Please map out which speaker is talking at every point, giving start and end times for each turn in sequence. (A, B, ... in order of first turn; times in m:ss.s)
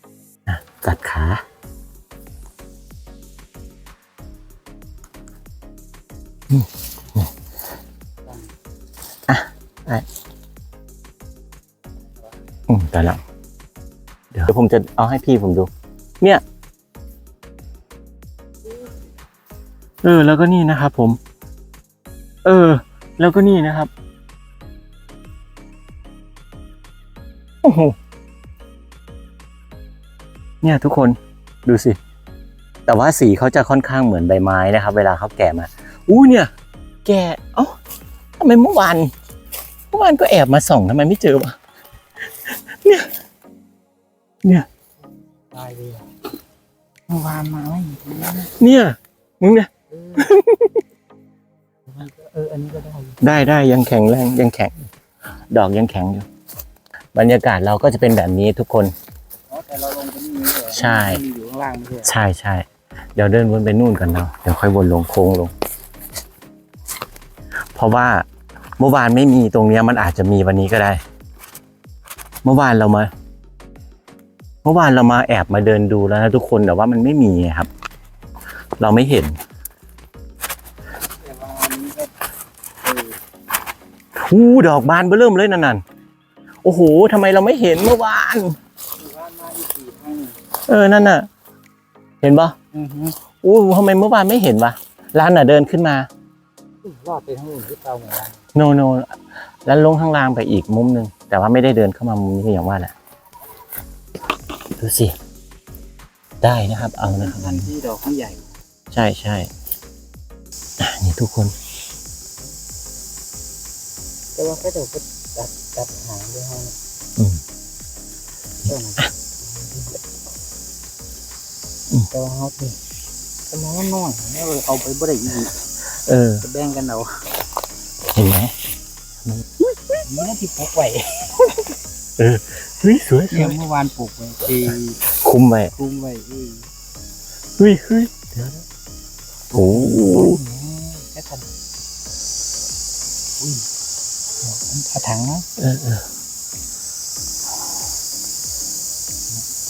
0:00.5-0:01.4 A
0:06.5-0:07.3 A
0:08.3-0:08.5 B
0:09.3-0:10.1 A
0:12.7-0:13.2 A
0:14.3-0:15.7 A
0:20.0-0:21.2 A
0:22.4-0:23.9 A
0:27.6-0:28.0 A
0:30.6-0:32.0 A
0:32.9-0:36.5 A
0:37.0-0:37.8 A
0:38.4-0:39.1 A
0:39.9-0:41.6 A
0:42.5-0:43.1 A
0:45.5-0:46.1 B
0:47.1-0:48.6 B
0:48.6-0:50.8 A
0:49.9-0:50.3 B
0:51.9-0:53.3 B
0:53.2-0:54.7 A
0:55.5-0:56.3 A
0:57.1-0:58.9 A
0:59.5-1:02.1 B
1:00.7-1:01.2 A
1:02.0-1:05.5 A
1:07.8-1:08.3 A
1:08.8-1:11.0 A
1:12.4-1:13.1 A
1:14.6-1:17.7 A
1:18.8-1:19.4 A
1:21.2-1:22.1 B
1:22.8-1:23.1 B
1:24.2-1:25.8 A
1:26.6-1:28.6 A
1:29.0-1:30.4 B
1:30.6-1:31.3 A
1:32.2-1:32.6 A
1:32.7-1:33.2 B
1:33.4-1:36.1 A
1:36.8-1:38.4 B
1:38.5-1:42.9 A
1:44.8-1:45.2 A
1:46.4-1:47.7 A
1:47.0-1:48.5 B
1:48.9-1:49.5 A
1:50.8-1:51.5 A
1:54.4-1:56.8 B
1:58.6-2:00.0 B
2:02.1-2:02.8 B
2:03.5-2:05.6 B
2:06.1-2:06.4 A
2:06.4-2:07.3 B
2:08.1-2:08.6 A
2:10.0-2:11.7 B
2:12.2-2:13.6 A
2:13.3-2:15.0 B
2:15.1-2:15.7 A
2:15.8-2:16.7 B
2:17.6-2:18.6 A
2:19.5-2:20.4 A
2:19.6-2:21.5 B
2:23.4-2:23.7 B
2:24.4-2:25.5 B
2:25.6-2:26.1 A